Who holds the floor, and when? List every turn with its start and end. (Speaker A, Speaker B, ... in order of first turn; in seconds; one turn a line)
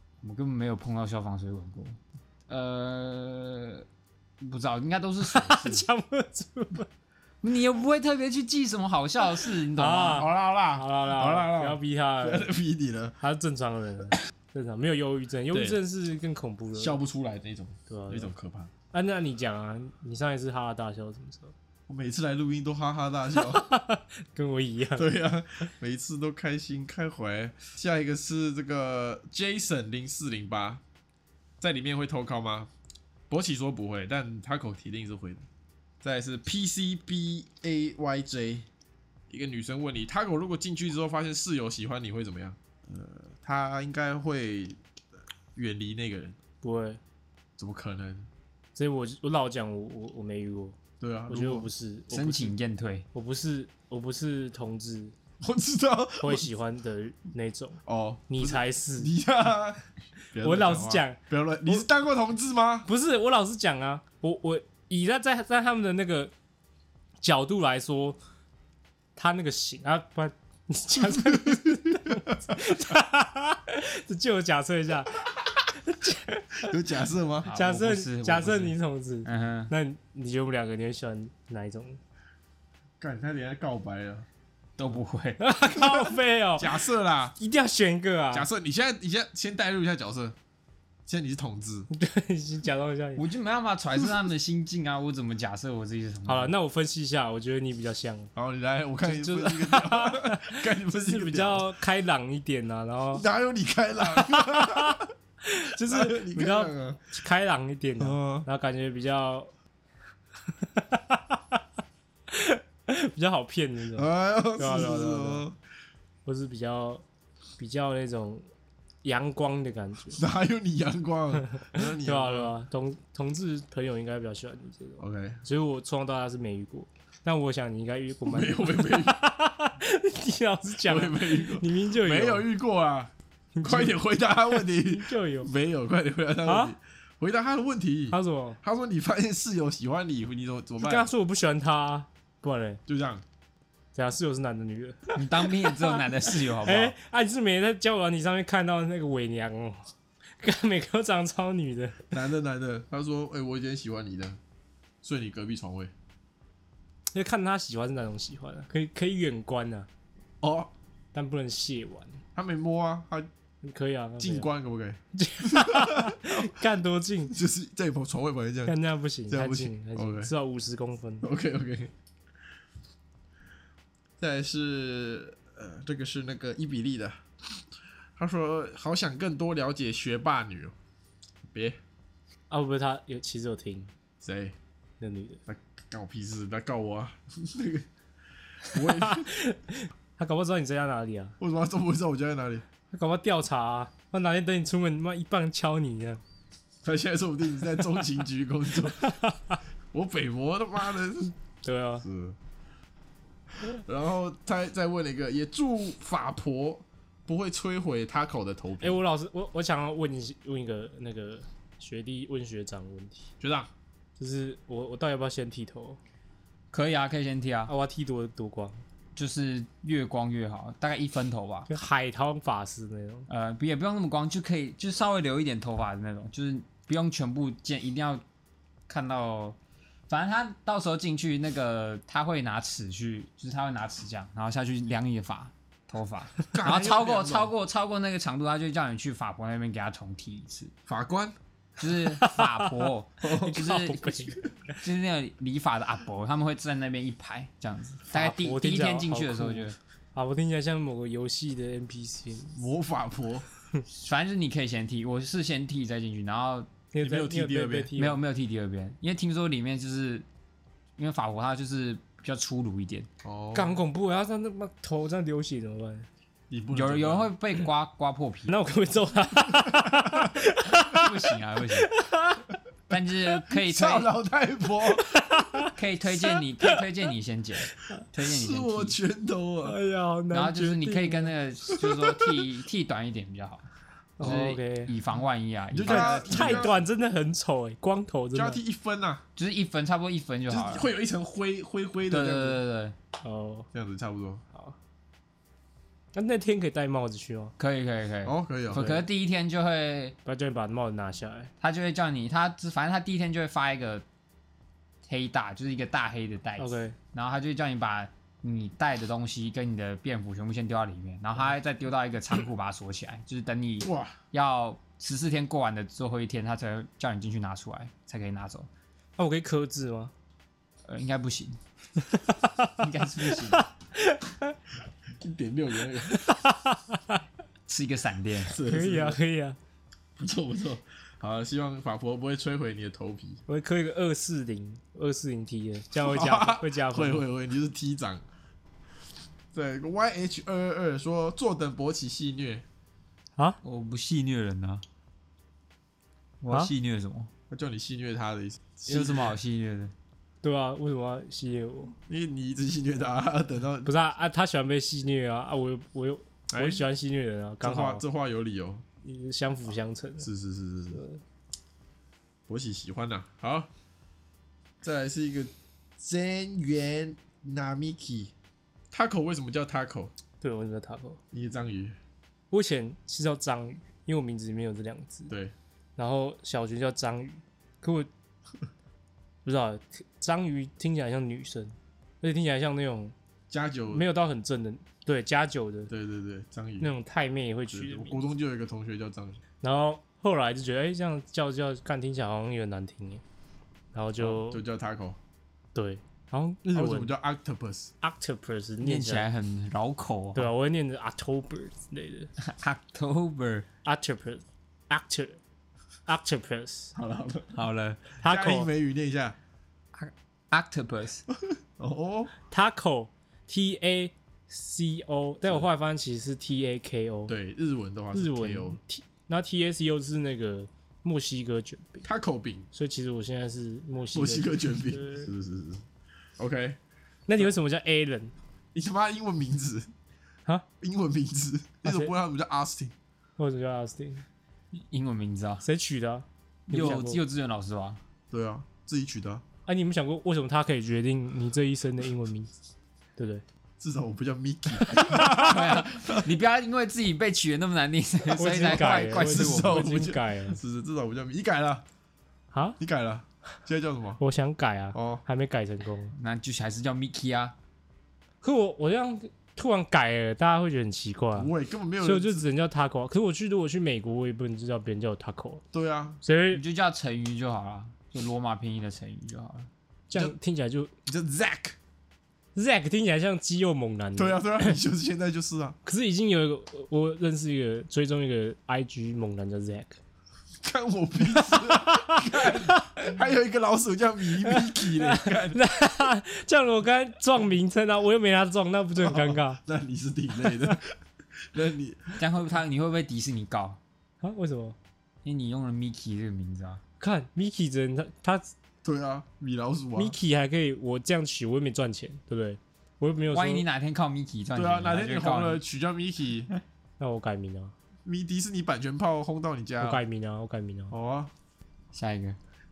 Speaker A: 0.2-3.9
Speaker A: 4.4-5.9
Speaker B: 5.2-6.9
Speaker A: 7.4-10.3
Speaker B: 9.8-12.5
Speaker C: 10.1-13.2
Speaker B: 13.2-17.0
Speaker C: 15.5-15.8
Speaker C: 16.8-18.7
Speaker B: 17.9-18.3
Speaker B: 18.9-21.5
Speaker C: 21.9-23.7
Speaker B: 23.3-25.1
Speaker C: 25.0-30.8
Speaker C: 31.6-32.7
Speaker C: 33.3-35.5
Speaker C: 36.0-38.7
Speaker C: 39.3-44.8
Speaker C: 45.5-46.4
Speaker B: 46.6-47.0
Speaker C: 47.6-48.3
Speaker B: 48.8-52.5
Speaker C: 51.0-51.7
Speaker A: 52.1-53.1
Speaker B: 53.1-55.1
Speaker C: 55.4-56.5
Speaker B: 56.2-59.1
Speaker C: 57.9-62.9
Speaker B: 60.4-61.8
Speaker B: 62.9-66.3
Speaker B: 67.2-68.2
Speaker B: 69.2-75.2
Speaker C: 71.0-72.3
Speaker B: 75.8-76.7
Speaker C: 76.7-77.5
Speaker A: 77.5-79.7
Speaker B: 77.5-82.0
Speaker C: 83.0-84.3
Speaker A: 84.8-85.4
Speaker B: 85.4-88.5
Speaker C: 85.9-87.3
Speaker C: 88.3-90.3
Speaker C: 91.1-91.9
Speaker B: 91.9-93.2
Speaker A: 93.2-96.5
Speaker B: 96.3-98.3
Speaker C: 98.3-101.7
Speaker B: 99.0-103.2
Speaker C: 103.1-105.1
Speaker B: 104.0-109.5
Speaker C: 105.8-107.0
Speaker C: 108.0-108.5
Speaker B: 110.6-111.6
Speaker B: 112.3-115.5
Speaker C: 114.0-115.6
Speaker B: 116.2-117.0
Speaker B: 117.6-118.5
Speaker B: 119.0-120.2
Speaker C: 120.1-122.5
Speaker B: 121.5-132.5
Speaker C: 125.0-125.4
Speaker C: 128.3-129.2
Speaker C: 130.8-133.1
Speaker B: 133.5-135.5
Speaker C: 133.6-141.1
Speaker B: 136.5-136.8
Speaker B: 138.1-138.6
Speaker B: 140.8-142.8
Speaker C: 142.9-143.2
Speaker B: 143.9-149.8
Speaker A: 145.2-146.9
Speaker B: 150.4-152.1
Speaker C: 152.1-154.4
Speaker C: 155.0-155.9
Speaker B: 157.1-159.9
Speaker C: 160.4-160.7
Speaker B: 161.1-162.2
Speaker C: 162.3-163.3
Speaker B: 163.6-164.5
Speaker C: 164.2-166.5
Speaker B: 165.1-167.4
Speaker C: 167.3-168.8
Speaker B: 168.7-171.3
Speaker C: 169.3-170.3
Speaker C: 171.2-171.9
Speaker C: 174.2-177.2
Speaker C: 178.2-180.7
Speaker C: 181.5-181.8
Speaker B: 182.5-183.9
Speaker C: 184.2-184.6
Speaker B: 185.0-185.4
Speaker C: 185.5-187.9
Speaker C: 188.7-189.3
Speaker B: 188.7-191.4
Speaker C: 191.4-192.7
Speaker B: 192.9-196.2
Speaker C: 196.8-199.2
Speaker B: 199.0-199.6
Speaker C: 199.9-201.3
Speaker B: 201.6-202.1
Speaker C: 202.0-202.4
Speaker C: 203.6-209.0
Speaker B: 208.8-213.3
Speaker C: 213.4-213.7
Speaker B: 214.2-216.0
Speaker A: 216.7-217.7
Speaker B: 217.7-218.8
Speaker A: 219.2-221.7
Speaker B: 221.7-223.3
Speaker A: 223.3-228.2
Speaker A: 228.9-229.6
Speaker A: 230.1-240.7
Speaker C: 236.5-237.5
Speaker C: 240.9-241.3
Speaker A: 241.8-249.8
Speaker B: 242.1-242.7
Speaker C: 243.2-243.8
Speaker B: 243.5-244.4
Speaker B: 248.1-252.6
Speaker C: 252.6-253.4
Speaker A: 253.9-256.7
Speaker B: 256.9-258.2
Speaker C: 257.0-257.9
Speaker A: 258.0-260.3
Speaker A: 261.0-263.1
Speaker C: 263.2-263.8
Speaker B: 263.5-266.1
Speaker C: 266.5-267.3
Speaker A: 266.7-268.6
Speaker B: 268.5-272.5
Speaker A: 270.8-271.9
Speaker A: 272.9-274.1
Speaker C: 273.5-275.1
Speaker B: 275.0-275.7
Speaker A: 275.7-279.0
Speaker C: 278.2-279.8
Speaker B: 279.6-281.3
Speaker A: 280.3-283.7
Speaker B: 284.2-284.9
Speaker A: 284.2-286.7
Speaker C: 285.7-286.8
Speaker B: 285.8-288.6
Speaker C: 288.3-289.2
Speaker A: 289.4-290.9
Speaker C: 290.5-292.6
Speaker A: 292.1-292.9
Speaker B: 293.2-293.7
Speaker C: 293.7-294.4
Speaker B: 296.1-297.5
Speaker A: 297.6-300.2
Speaker C: 298.2-298.9
Speaker B: 298.7-299.0
Speaker B: 300.2-301.5
Speaker A: 301.6-304.1
Speaker A: 305.1-318.7
Speaker B: 306.6-306.9
Speaker C: 313.8-314.1
Speaker B: 319.2-320.1
Speaker A: 320.9-321.6
Speaker B: 322.1-322.7
Speaker A: 322.7-323.7
Speaker B: 323.5-324.6
Speaker C: 325.2-326.2
Speaker B: 326.1-327.2
Speaker A: 327.7-328.6
Speaker C: 328.5-329.2
Speaker B: 328.6-329.6
Speaker C: 330.2-333.4
Speaker B: 333.5-337.2
Speaker C: 335.9-338.2
Speaker C: 339.5-342.6
Speaker A: 343.6-344.8
Speaker A: 346.4-347.3
Speaker C: 347.5-349.4
Speaker A: 348.9-349.9
Speaker B: 350.4-351.9
Speaker C: 352.1-353.9
Speaker B: 353.9-358.0
Speaker C: 356.5-356.9
Speaker C: 357.6-358.8
Speaker B: 359.0-360.3
Speaker C: 360.2-361.0
Speaker B: 360.9-361.2
Speaker C: 362.5-363.7
Speaker C: 364.8-368.3
Speaker C: 368.9-370.1
Speaker B: 370.4-371.2
Speaker C: 371.3-372.0
Speaker B: 372.5-375.3
Speaker B: 376.0-378.1
Speaker B: 379.4-383.1
Speaker C: 383.5-384.1
Speaker B: 383.9-385.9
Speaker C: 385.9-386.9
Speaker B: 386.8-388.3
Speaker C: 387.7-389.4
Speaker B: 389.6-393.2
Speaker B: 393.9-394.6
Speaker C: 394.2-395.2
Speaker B: 395.8-397.1
Speaker C: 396.7-397.9
Speaker B: 398.0-399.3
Speaker A: 398.8-400.5
Speaker B: 400.4-402.3
Speaker A: 402.4-403.7
Speaker B: 403.8-405.4
Speaker B: 406.1-406.9
Speaker C: 406.9-407.6
Speaker A: 407.5-408.0
Speaker B: 408.2-408.7
Speaker C: 408.2-409.4
Speaker A: 409.9-411.3
Speaker C: 411.5-412.3
Speaker B: 412.5-417.3
Speaker C: 417.3-418.8
Speaker B: 418.1-422.1
Speaker C: 422.0-422.7
Speaker B: 422.7-425.3
Speaker C: 424.1-425.9
Speaker C: 426.4-426.8
Speaker B: 427.3-428.3
Speaker C: 428.7-429.9
Speaker C: 430.8-432.9
Speaker B: 431.8-432.1
Speaker B: 433.4-434.2
Speaker A: 434.7-435.6
Speaker B: 435.6-437.2
Speaker A: 436.7-438.0
Speaker C: 438.3-439.4
Speaker B: 439.7-442.5
Speaker B: 443.2-443.4
Speaker C: 443.8-446.3
Speaker A: 445.2-449.9
Speaker B: 448.4-450.6
Speaker C: 448.4-451.9
Speaker B: 452.5-452.8
Speaker C: 452.8-454.2
Speaker B: 454.2-456.1
Speaker C: 454.9-455.2
Speaker A: 456.1-457.6
Speaker B: 458.4-465.6
Speaker C: 461.4-462.5
Speaker C: 465.7-466.2
Speaker B: 466.2-466.6
Speaker A: 466.5-469.7
Speaker B: 470.1-470.9
Speaker C: 471.1-471.8
Speaker B: 472.6-474.8
Speaker C: 474.2-475.8
Speaker B: 475.9-480.0
Speaker C: 480.6-485.6
Speaker B: 481.2-483.1
Speaker B: 484.4-489.6
Speaker C: 489.0-492.2
Speaker A: 492.2-493.8
Speaker B: 494.2-494.8
Speaker A: 495.2-496.8
Speaker B: 497.0-498.5
Speaker C: 498.8-500.2
Speaker B: 500.0-503.6
Speaker A: 503.3-505.6
Speaker C: 504.6-506.5
Speaker B: 507.0-507.8
Speaker C: 508.1-510.0
Speaker B: 509.8-510.9
Speaker C: 510.9-511.3
Speaker A: 511.9-512.4